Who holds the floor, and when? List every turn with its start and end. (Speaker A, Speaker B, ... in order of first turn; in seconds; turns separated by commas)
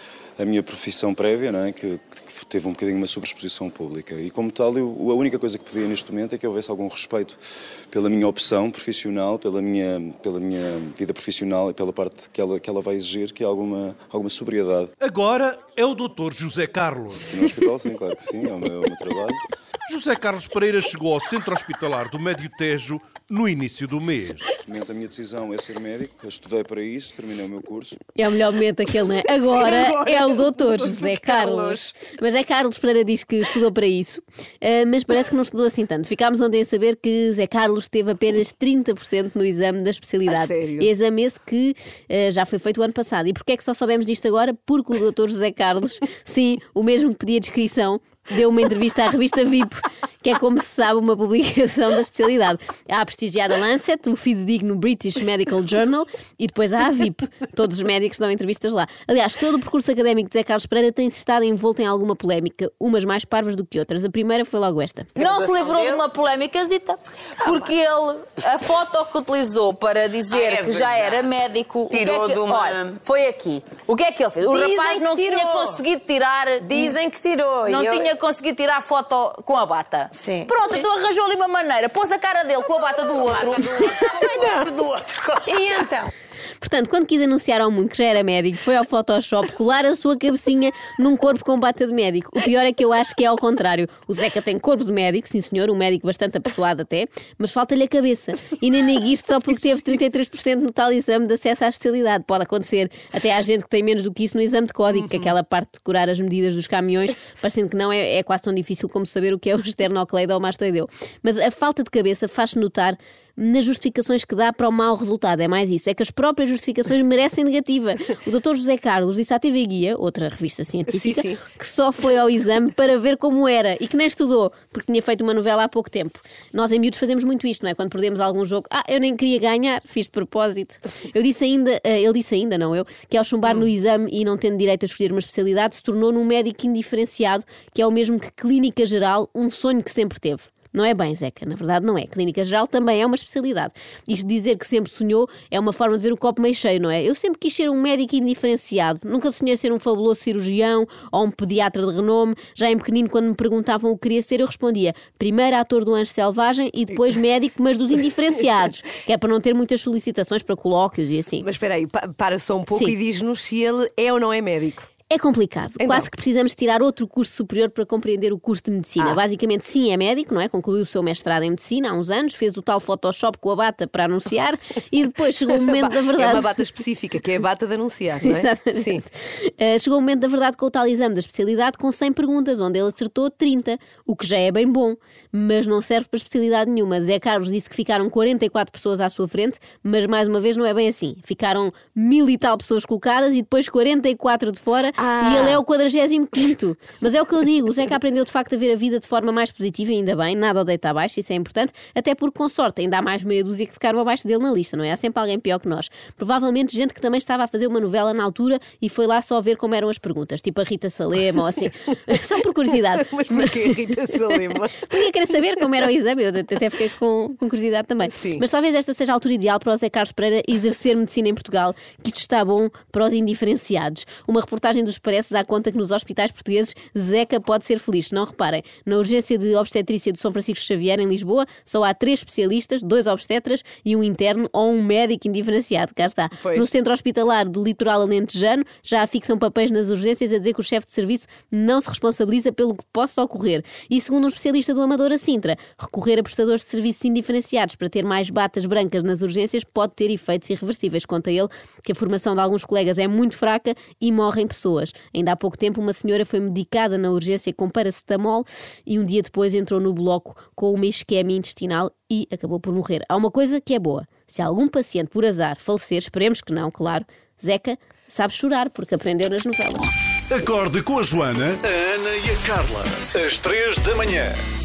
Speaker A: 0.4-7.4, Speaker A: 7.9-14.9, Speaker B: 15.0-17.3, Speaker A: 17.3-19.4, Speaker B: 19.9-24.5, Speaker A: 24.6-28.0, Speaker C: 28.1-65.2, Speaker D: 29.5-31.9, Speaker D: 40.3-40.9, Speaker E: 65.2-77.0, Speaker F: 65.2-66.0, Speaker F: 70.4-71.1, Speaker F: 71.9-73.0, Speaker F: 74.5-75.8, Speaker F: 76.7-78.1, Speaker E: 77.6-85.8, Speaker F: 80.2-80.5, Speaker F: 85.5-86.1, Speaker C: 86.6-161.5, Speaker D: 120.9-121.4, Speaker D: 161.4-164.9, Speaker C: 162.7-163.0, Speaker C: 165.1-176.5, Speaker D: 165.8-166.1, Speaker D: 175.6-179.0, Speaker C: 178.2-213.7, Speaker D: 195.0-195.6, Speaker D: 212.9-214.9, Speaker C: 214.8-269.9, Speaker D: 218.1-218.4, Speaker D: 236.4-236.7, Speaker G: 270.3-274.4